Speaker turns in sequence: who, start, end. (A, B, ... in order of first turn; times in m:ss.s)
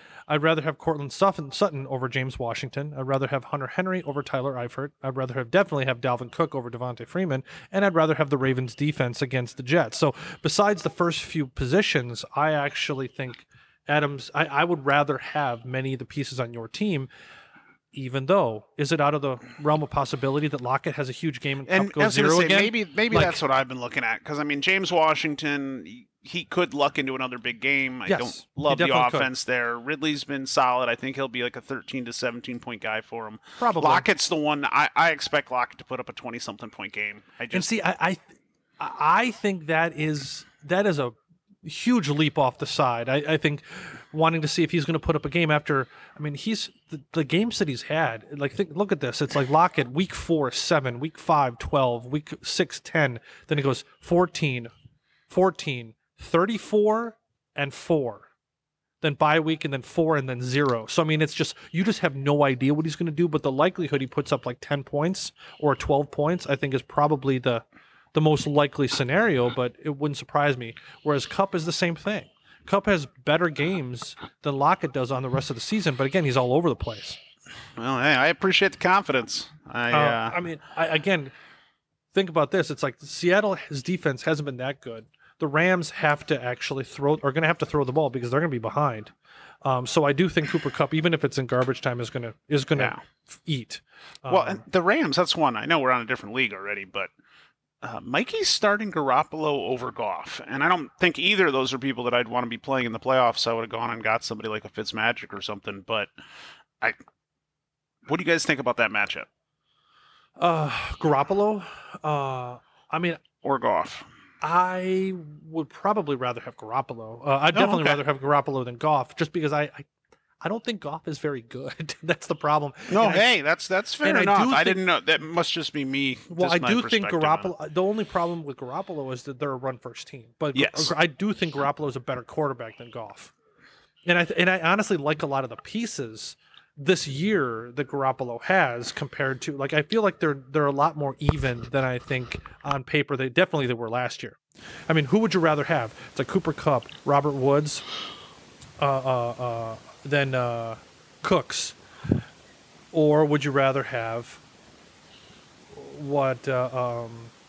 0:00.3-0:17.1 A
0:17.9-0:23.4 A
0:21.7-0:37.7 B
0:28.1-0:29.3 A
0:33.6-0:34.0 A
0:37.5-0:38.2 A
0:38.8-0:54.7 A
0:55.3-0:58.3 A
0:59.0-1:17.2 A
1:17.8-1:20.4 B
1:19.9-1:21.3 A
1:22.1-1:29.1 A
1:29.6-1:34.6 A
1:34.3-1:37.1 B
1:37.8-1:46.1 B
1:48.1-1:49.3 B
1:50.4-1:53.2 A
1:53.4-1:54.1 B
1:54.4-1:59.9 A
1:57.5-1:58.0 B
2:00.4-2:03.2 A
2:02.9-2:07.5 B
2:04.0-2:04.8 A
2:06.3-2:13.3 A
2:10.5-2:10.9 B
2:14.0-2:24.4 A
2:24.9-2:27.8 A
2:28.8-2:31.8 A
2:32.9-2:34.4 A
2:35.7-2:37.3 A